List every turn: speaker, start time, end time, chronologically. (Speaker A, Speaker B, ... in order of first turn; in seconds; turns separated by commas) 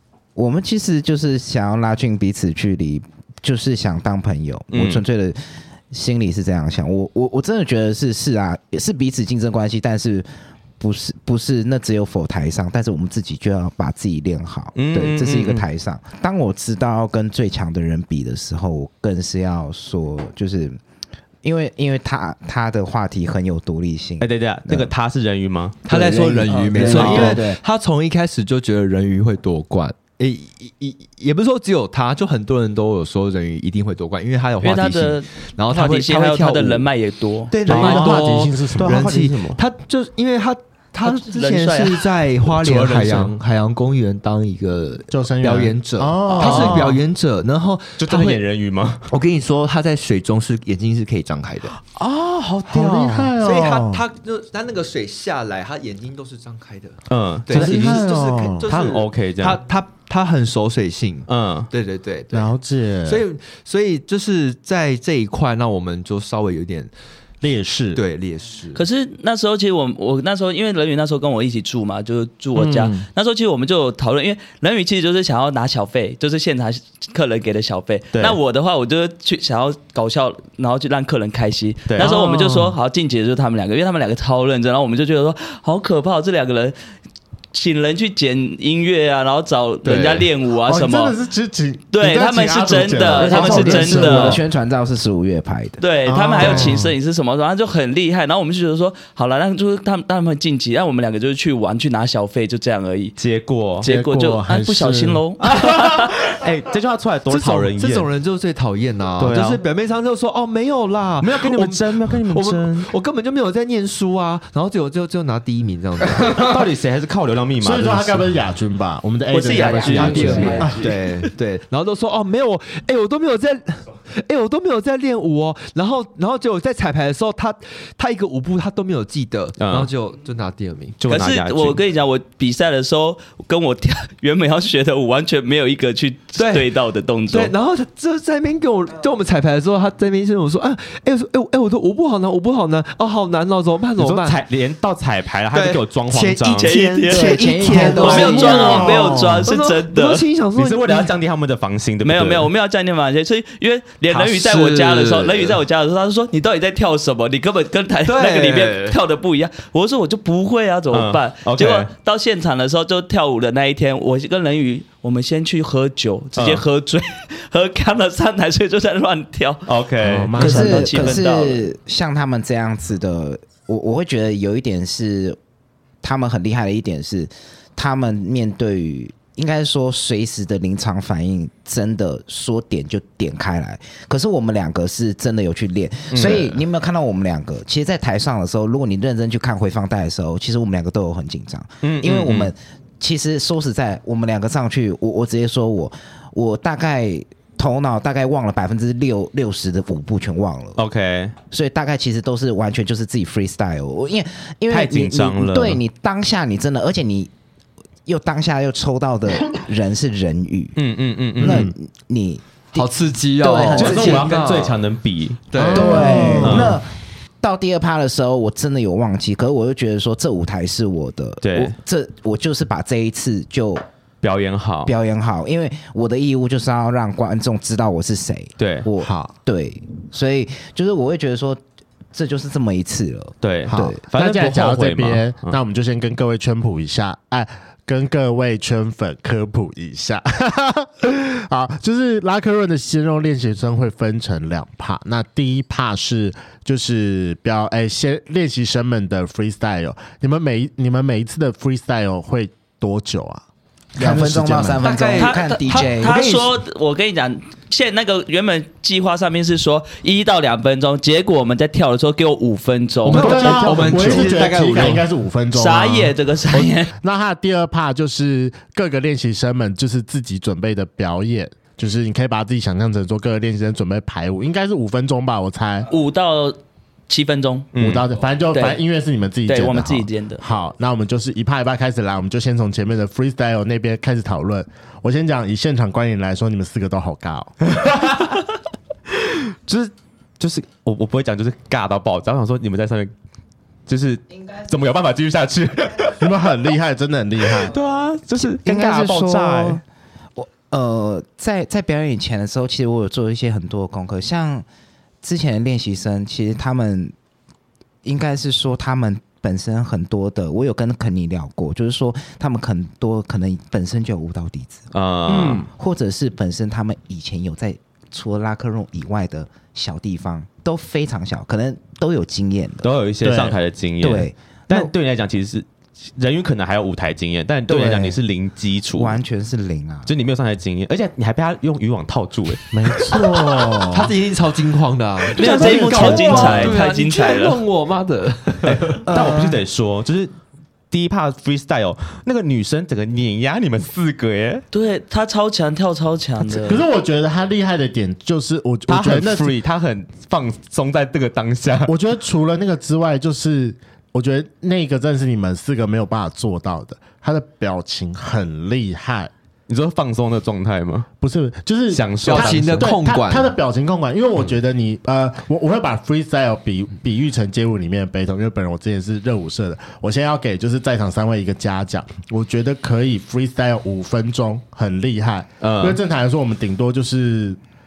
Speaker A: 0.3-20.8, Speaker B: 4.7-5.0, Speaker B: 14.8-15.7, Speaker A: 21.4-24.9, Speaker B: 24.2-25.9, Speaker C: 25.8-36.9, Speaker A: 25.9-27.6, Speaker D: 26.5-27.4, Speaker B: 26.8-27.4, Speaker D: 34.6-37.5, Speaker C: 37.5-48.4, Speaker B: 37.6-39.6, Speaker E: 37.7-39.1, Speaker D: 41.0-42.1, Speaker B: 42.6-43.3, Speaker E: 45.1-47.0, Speaker B: 46.3-47.0, Speaker B: 48.0-49.1, Speaker C: 49.1-51.8, Speaker B: 51.8-53.3, Speaker E: 52.7-54.0, Speaker C: 53.4-62.5, Speaker B: 57.1-58.1, Speaker E: 57.5-58.7, Speaker B: 58.6-59.6, Speaker B: 61.3-61.7, Speaker E: 62.3-63.2, Speaker C: 63.0-66.9, Speaker E: 67.4-68.0, Speaker C: 67.9-68.8, Speaker D: 68.7-86.8, Speaker E: 72.5-73.1, Speaker E: 82.0-82.8, Speaker D: 87.5-91.2, Speaker C: 89.8-90.3, Speaker E: 90.7-94.4, Speaker D: 91.9-94.4, Speaker B: 93.2-93.8, Speaker A: 93.2-95.8, Speaker D: 95.8-103.2, Speaker E: 96.1-97.0, Speaker B: 96.4-96.7, Speaker B: 103.2-103.9, Speaker D: 103.8-106.1, Speaker E: 103.8-105.2, Speaker B: 105.4-108.1, Speaker C: 107.3-116.5, Speaker B: 109.2-109.6, Speaker B: 111.2-112.9, Speaker B: 116.2-118.3, Speaker E: 117.6-120.8, Speaker D: 119.3-121.1, Speaker B: 119.6-120.5, Speaker C: 119.9-131.0, Speaker A: 120.2-120.6, Speaker B: 129.6-129.9, Speaker B: 131.0-131.8, Speaker D: 131.1-137.5, Speaker C: 136.4-136.7, Speaker C: 137.3-144.4, Speaker B: 144.0-146.8, Speaker C: 145.5-151.1, Speaker D: 146.5-150.3, Speaker A: 147.1-148.9, Speaker E: 147.7-149.5, Speaker B: 150.6-152.5, Speaker D: 152.0-169.7, Speaker C: 154.1-155.6, Speaker C: 158.1-159.0, Speaker B: 160.9-161.9, Speaker B: 166.4-166.6, Speaker B: 169.7-170.4, Speaker E: 170.0-171.2, Speaker D: 170.4-171.7, Speaker A: 170.4-175.4, Speaker A: 176.0-200.8, Speaker B: 186.1-186.6, Speaker B: 191.8-192.5, Speaker B: 200.8-201.3, Speaker A: 201.5-207.3, Speaker B: 204.7-205.8, Speaker A: 208.1-210.8, Speaker B: 210.8-211.7, Speaker A: 211.4-214.4, Speaker E: 211.4-211.7, Speaker C: 212.8-214.8, Speaker B: 213.7-216.8, Speaker C: 215.5-216.4, Speaker E: 215.6-216.8, Speaker A: 215.7-216.9, Speaker A: 217.4-223.8, Speaker B: 221.4-221.8, Speaker B: 224.2-224.9, Speaker A: 224.9-231.6, Speaker B: 228.6-228.9, Speaker E: 229.0-229.3, Speaker A: 232.1-234.0, Speaker B: 233.4-235.6, Speaker E: 233.7-253.4, Speaker E: 253.9-254.9, Speaker A: 254.0-256.2, Speaker C: 254.8-256.5, Speaker D: 255.2-263.9, Speaker C: 263.1-265.1, Speaker E: 263.1-266.1, Speaker B: 263.8-264.3, Speaker D: 265.5-266.9, Speaker E: 266.9-275.9, Speaker D: 275.9-276.6, Speaker D: 277.1-277.7, Speaker B: 277.7-278.1, Speaker E: 277.8-287.6, Speaker D: 278.5-278.8, Speaker D: 279.5-280.4, Speaker B: 287.7-288.4, Speaker B: 289.2-293.1, Speaker B: 293.9-296.3, Speaker E: 296.2-297.8, Speaker B: 297.5-299.8, Speaker A: 298.4-299.8, Speaker A: 300.4-304.7, Speaker A: 305.2-307.1, Speaker A: 308.0-322.9, Speaker B: 314.9-315.7, Speaker E: 315.3-315.7, Speaker B: 322.8-325.7, Speaker E: 323.2-323.6, Speaker A: 324.0-324.9, Speaker B: 326.2-329.2, Speaker A: 327.7-328.2, Speaker A: 329.0-330.1, Speaker B: 330.1-333.6, Speaker E: 332.7-334.1, Speaker C: 333.9-339.1, Speaker B: 335.4-336.8, Speaker D: 335.4-337.6, Speaker E: 335.5-336.7, Speaker B: 338.7-340.3, Speaker A: 339.1-339.6, Speaker B: 340.9-344.6, Speaker D: 344.7-346.9, Speaker E: 346.5-349.6, Speaker B: 348.9-351.9, Speaker E: 351.9-359.3, Speaker B: 359.7-361.1, Speaker E: 361.2-377.6, Speaker B: 361.9-362.9, Speaker C: 362.2-363.5, Speaker B: 375.6-376.0